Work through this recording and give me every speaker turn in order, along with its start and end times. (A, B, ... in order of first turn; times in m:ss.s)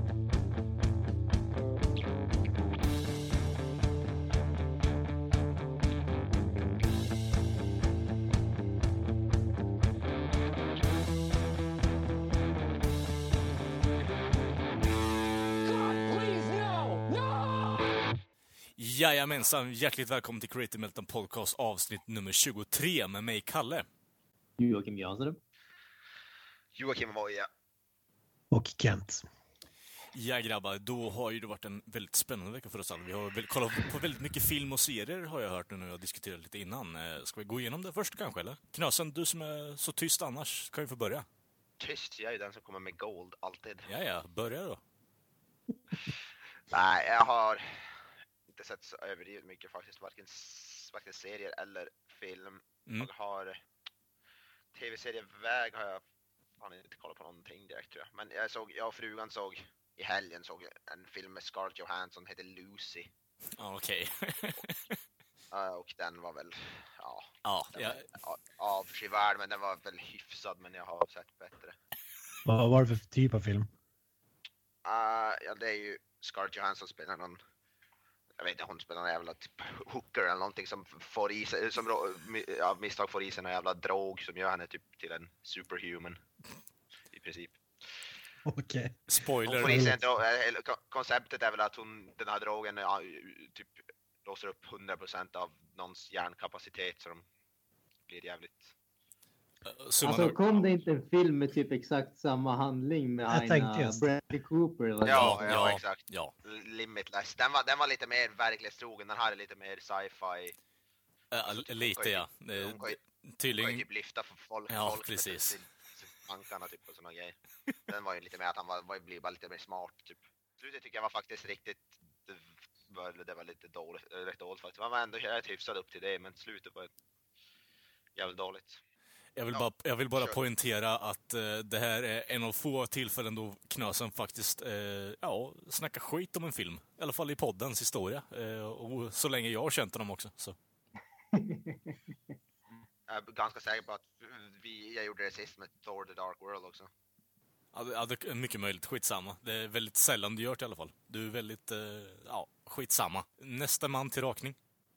0:18.8-0:23.9 A
0:24.6-0:25.4 B
0:26.7-0:27.5 C
0:28.5-0:29.2 D
0:30.1-0:41.3 A
0:41.8-0:43.9 C
0:43.9-0:44.8 A
0:46.7-0:53.6 C
0:54.7-0:56.0 C
0:56.6-1:03.1 C
1:03.6-1:05.0 A
1:05.5-1:11.8 C
1:07.4-1:08.0 A
1:12.4-1:13.7 D
1:14.8-1:17.4 C
1:18.4-1:26.2 C
1:27.1-1:27.6 C
1:28.4-1:30.0 D
1:29.1-1:29.9 A
1:29.5-1:37.2 C
1:38.1-1:38.7 C
1:39.7-1:40.4 A
1:40.0-1:45.4 B
1:43.3-1:44.2 D
1:45.0-1:50.6 C
1:45.1-1:46.3 A
1:51.3-1:53.8 A
1:51.4-1:53.0 C
1:53.5-1:57.4 C
1:54.7-1:55.6 A
1:57.9-2:06.9 C
2:08.2-2:08.8 C
2:09.4-2:20.6 A
2:21.3-2:22.0 B
2:23.1-2:26.9 C
2:27.7-2:34.6 A